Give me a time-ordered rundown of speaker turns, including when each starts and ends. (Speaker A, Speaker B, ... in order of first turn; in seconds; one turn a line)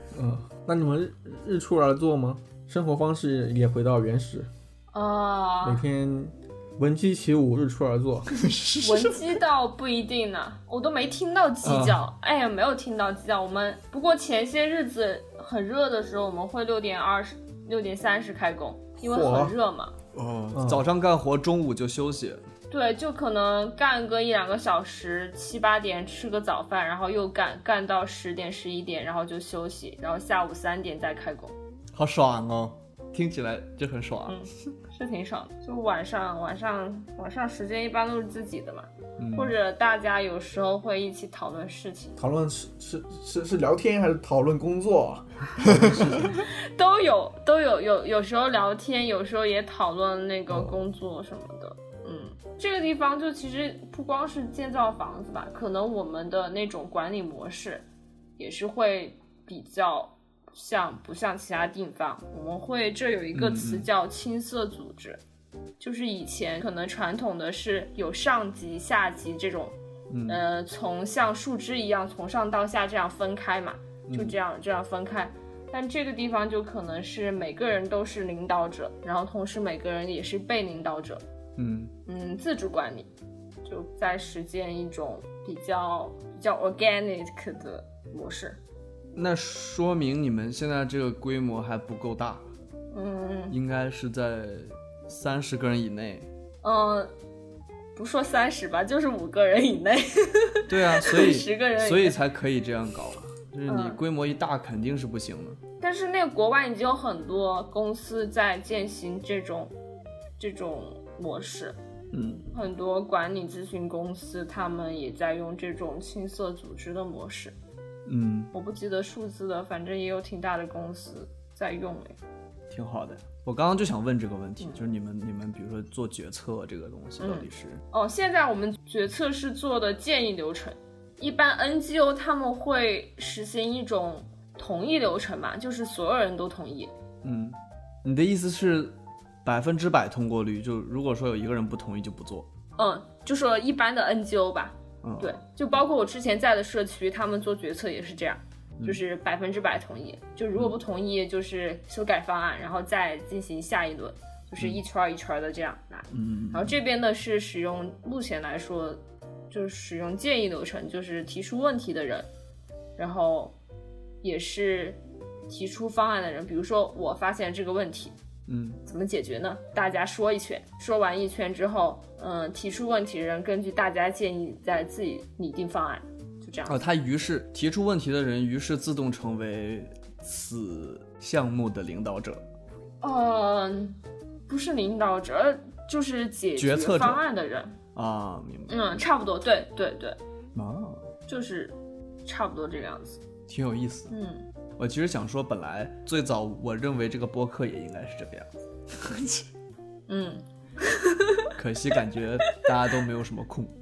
Speaker A: 0.1-4.5
Speaker B: 4.9-5.8
Speaker A: 5.6-8.4
Speaker C: 8.3-9.4
Speaker B: 8.8-19.9
Speaker A: 11.6-12.0
Speaker A: 19.0-19.6
Speaker C: 20.1-22.4
Speaker A: 20.5-20.9
Speaker B: 22.7-31.5
Speaker C: 31.9-34.4
Speaker B: 34.3-42.1
Speaker C: 39.2-39.5
Speaker A: 42.2-46.3
Speaker C: 45.6-46.4
Speaker B: 46.3-57.9
Speaker A: 50.5-50.8
Speaker B: 58.4-65.2
Speaker C: 63.4-63.9
Speaker B: 65.8-69.8
Speaker C: 70.1-70.4
Speaker B: 70.3-81.2
Speaker C: 74.1-74.4
Speaker C: 81.6-81.9
Speaker B: 82.1-83.1
Speaker B: 83.7-88.6
Speaker C: 89.2-92.5
Speaker B: 92.9-93.5
Speaker C: 93.5-96.3
Speaker B: 96.6-97.1
Speaker B: 98.0-102.2
Speaker C: 100.7-105.6
Speaker B: 103.7-104.0
Speaker B: 105.8-109.7
Speaker B: 110.4-111.8
Speaker C: 112.1-112.5
Speaker B: 112.5-117.5
Speaker C: 118.1-118.5
Speaker B: 118.5-122.2
Speaker C: 122.7-127.8
Speaker B: 127.2-136.9
Speaker C: 137.2-142.5
Speaker B: 142.8-162.3
Speaker C: 145.0-145.4
Speaker C: 156.1-156.8
Speaker B: 163.0-163.6
Speaker B: 164.2-168.1
Speaker C: 168.5-168.8
Speaker B: 168.9-176.8
Speaker C: 176.7-182.4
Speaker B: 183.0-187.8
Speaker C: 186.6-187.2
Speaker C: 187.9-189.1
Speaker B: 188.7-190.2
Speaker C: 190.6-191.1
Speaker B: 191.3-193.2
Speaker C: 193.5-194.1
Speaker B: 194.1-194.4
Speaker C: 194.8-199.5
Speaker B: 200.1-201.5
Speaker C: 201.6-203.7